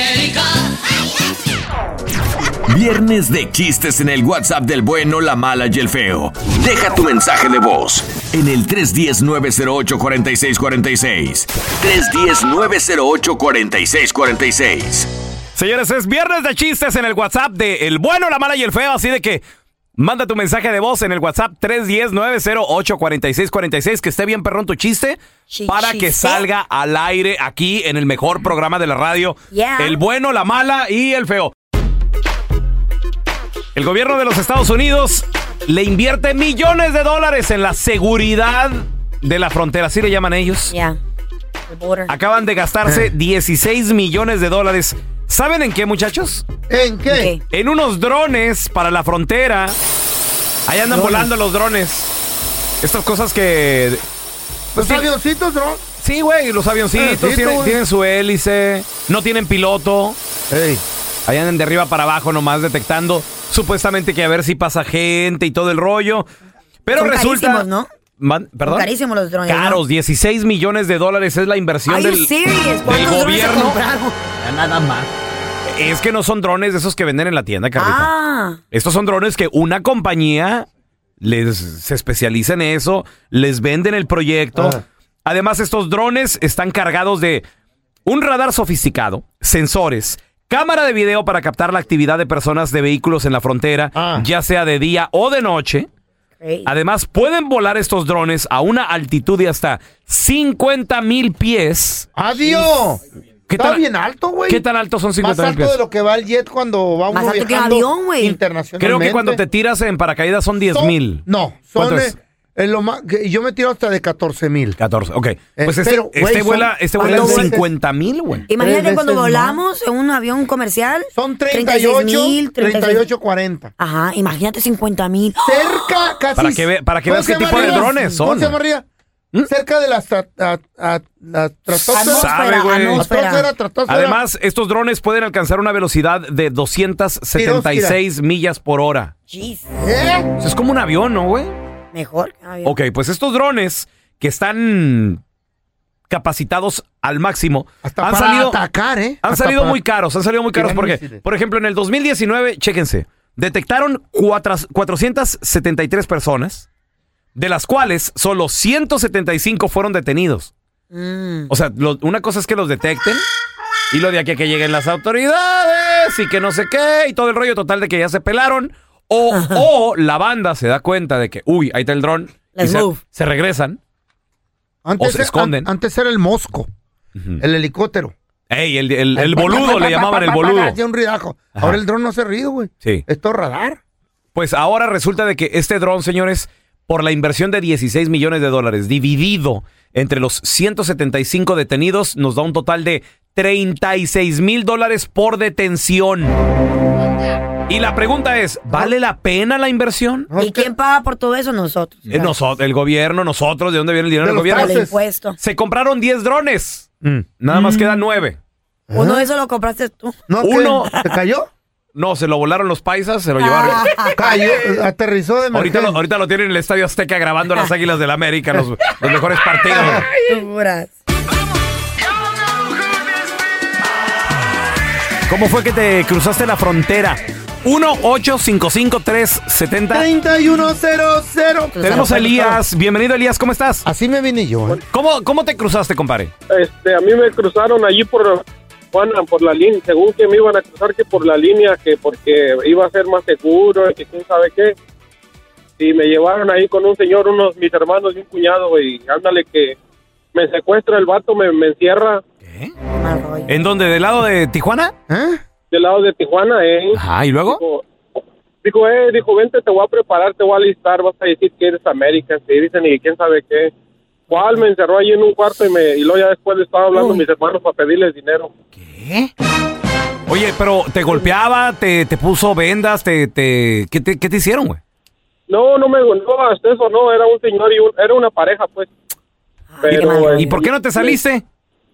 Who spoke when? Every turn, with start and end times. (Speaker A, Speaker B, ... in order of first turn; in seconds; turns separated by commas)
Speaker A: 2.7-15.1, Speaker B: 15.6-19.4, Speaker B: 20.0-31.5, Speaker C: 25.5-26.4, Speaker C: 29.5-30.0, Speaker B: 33.8-40.8, Speaker C: 40.7-41.0, Speaker C: 41.7-42.1, Speaker B: 42.1-46.4, Speaker D: 42.9-43.1, Speaker D: 46.7-47.3, Speaker C: 47.1-47.4, Speaker B: 47.5-49.8, Speaker B: 50.7-52.1, Speaker D: 50.9-51.3, Speaker B: 52.8-54.0, Speaker D: 54.8-55.8, Speaker B: 54.8-55.1, Speaker B: 56.0-60.2, Speaker D: 56.9-57.8, Speaker D: 60.5-60.8, Speaker B: 61.3-66.3, Speaker B: 66.8-67.7, Speaker C: 66.9-67.9, Speaker B: 68.2-68.9, Speaker C: 68.7-69.8, Speaker B: 69.5-72.3, Speaker C: 71.9-73.8, Speaker B: 72.9-75.1, Speaker B: 75.7-78.1, Speaker C: 77.8-78.6, Speaker B: 78.7-80.7, Speaker B: 81.2-87.5, Speaker D: 84.5-84.8, Speaker B: 88.1-95.9, Speaker D: 93.9-94.3, Speaker C: 96.4-96.7, Speaker B: 96.7-102.1, Speaker D: 102.2-103.0, Speaker B: 103.5-103.8, Speaker D: 103.6-104.6, Speaker B: 104.5-105.8, Speaker D: 105.2-109.4, Speaker C: 107.1-108.4, Speaker B: 108.8-111.2, Speaker D: 110.7-114.8, Speaker B: 111.8-112.2, Speaker B: 114.8-118.5, Speaker D: 115.6-117.7, Speaker C: 117.0-117.5, Speaker C: 118.5-123.0, Speaker D: 118.6-119.6, Speaker D: 121.1-123.7, Speaker C: 123.8-125.7, Speaker D: 125.4-128.9, Speaker B: 126.4-128.6, Speaker C: 127.5-128.0, Speaker D: 129.5-132.3, Speaker B: 131.7-133.1, Speaker C: 131.9-133.5, Speaker D: 133.0-134.2, Speaker B: 133.9-139.1, Speaker D: 137.3-138.0, Speaker C: 139.3-139.7, Speaker D: 139.8-140.3, Speaker B: 140.4-141.5, Speaker C: 141.9-142.8, Speaker B: 142.6-145.2, Speaker B: 146.1-148.6, Speaker D: 147.8-149.8, Speaker B: 149.2-156.7, Speaker D: 150.5-151.2, Speaker B: 157.4-160.5, Speaker C: 160.9-161.5, Speaker B: 161.5-163.2, Speaker B: 163.9-173.8, Speaker C: 169.3-169.6, Speaker C: 172.6-173.0, Speaker D: 174.8-176.7, Speaker B: 175.0-175.7, Speaker B: 177.2-177.4, Speaker D: 177.4-178.1, Speaker B: 178.5-180.8, Speaker D: 179.2-183.8, Speaker C: 179.4-179.9, Speaker B: 184.3-196.3, Speaker B: 197.7-200.3, Speaker D: 198.7-198.9, Speaker D: 200.3-200.7, Speaker C: 200.4-202.2, Speaker B: 202.1-204.8, Speaker D: 204.2-205.0, Speaker C: 204.5-205.4, Speaker B: 205.4-208.4, Speaker C: 207.5-207.9, Speaker D: 208.9-209.3, Speaker C: 208.9-210.2, Speaker D: 210.3-211.5, Speaker B: 210.4-210.9, Speaker B: 211.9-213.9, Speaker C: 213.4-214.2, Speaker D: 214.1-216.0, Speaker B: 215.5-220.1, Speaker D: 219.7-220.4, Speaker C: 220.3-220.9, Speaker B: 225.3-230.1, Speaker D: 229.9-232.6, Speaker C: 231.8-232.1, Speaker B: 231.8-233.8, Speaker D: 233.8-234.8, Speaker B: 234.9-236.3, Speaker E: 236.5-244.8, Speaker E: 245.8-249.8, Speaker E: 250.3-252.2, Speaker B: 252.4-252.7, Speaker C: 253.0-253.5, Speaker B: 253.5-254.9, Speaker D: 255.1-255.4, Speaker E: 255.7-257.8, Speaker B: 256.9-257.6, Speaker E: 258.6-263.7, Speaker E: 264.3-268.5, Speaker B: 268.8-269.3, Speaker B: 270.3-274.8, Speaker E: 275.5-278.9, Speaker C: 279.7-280.6, Speaker E: 279.8-281.2, Speaker B: 280.3-281.4